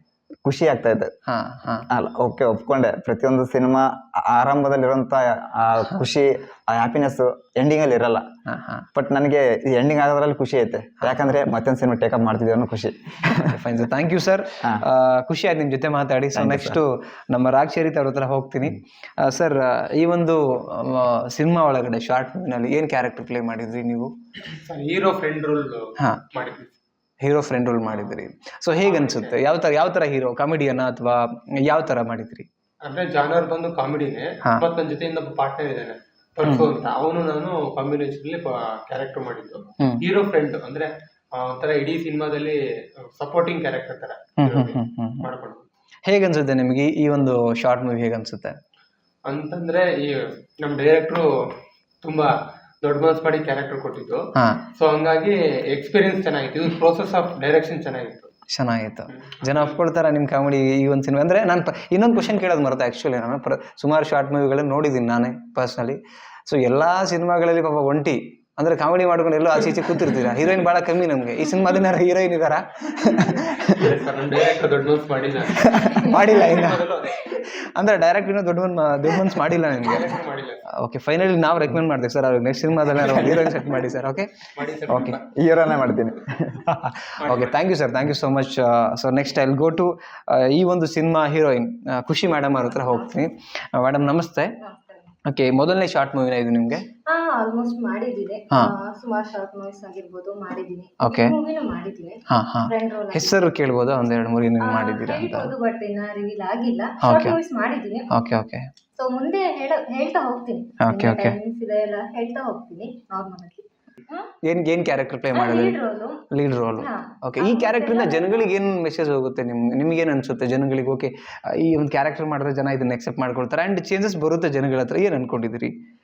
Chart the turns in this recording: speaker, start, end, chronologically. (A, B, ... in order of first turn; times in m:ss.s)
0:00.4-0:01.1 A
0:01.3-0:01.9 B
0:01.9-0:08.2 A
0:08.5-0:08.9 B
0:08.9-0:13.6 A
0:13.4-0:24.1 B
0:16.3-0:16.8 A
0:24.5-0:26.7 C
0:27.2-0:32.5 B
0:28.8-0:29.4 C
0:32.8-0:42.6 C
0:36.4-0:36.7 B
0:43.2-0:45.6 C
0:44.4-0:45.2 B
0:46.0-0:48.6 B
0:49.2-0:51.2 C
0:52.0-0:52.3 C
0:52.8-0:54.2 C
0:54.4-0:54.6 B
0:54.8-0:58.3 C
0:58.5-1:13.9 B
0:59.4-0:59.7 C
1:13.7-1:17.3 C
1:15.6-1:16.8 B
1:17.8-1:20.0 B
1:19.8-1:20.6 C
1:20.8-1:24.3 B
1:22.9-1:23.5 C
1:24.6-1:25.2 C
1:24.9-1:25.2 B
1:25.4-1:26.6 A
1:26.6-1:34.5 B
1:27.2-1:27.6 C
1:34.6-1:35.1 D
1:35.2-1:36.8 B
1:37.1-1:43.4 D
1:41.0-1:41.4 B
1:42.3-1:45.5 B
1:44.6-1:48.1 D
1:47.0-1:47.4 B
1:48.1-1:48.7 B
1:49.0-1:54.3 D
1:50.8-1:51.4 B
1:54.4-1:55.8 B
1:55.3-1:56.2 D
1:56.3-2:05.7 B
1:56.8-1:58.5 D